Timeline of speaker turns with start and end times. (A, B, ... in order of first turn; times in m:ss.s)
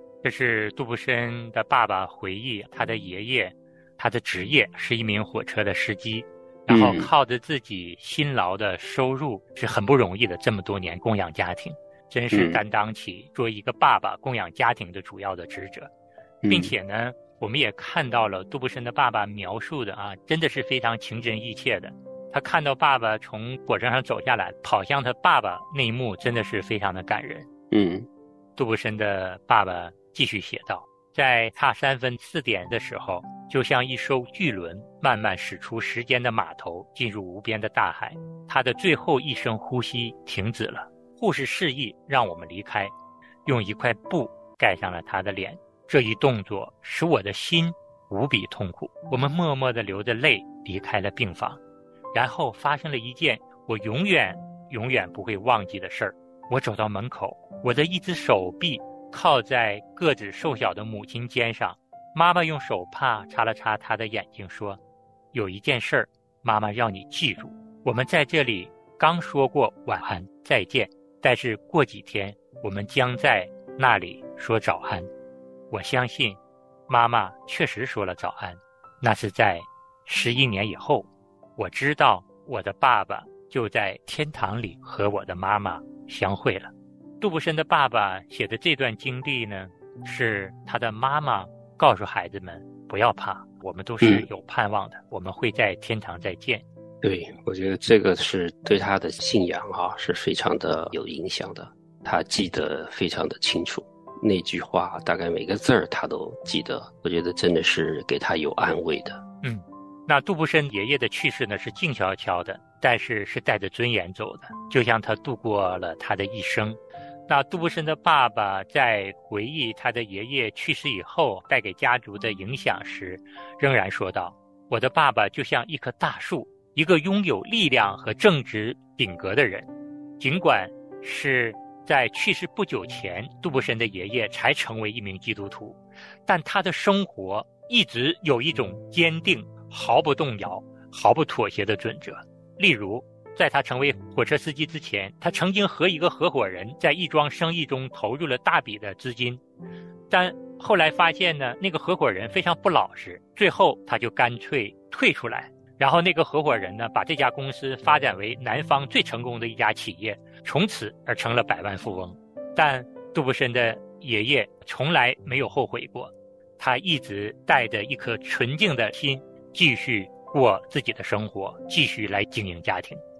0:00.2-0:15.9 A
0:06.7-0:07.1 B
0:12.3-0:12.6 B
0:16.4-0:16.7 B
0:16.5-0:27.5 A
0:27.7-0:28.1 B
0:28.6-0:42.9 A
0:43.4-0:51.6 A
0:52.1-1:04.8 A
1:05.3-1:15.1 A
1:15.7-1:36.6 A
1:37.0-1:49.2 B
1:49.4-2:09.7 A
2:10.2-2:29.4 A
2:30.1-2:53.0 A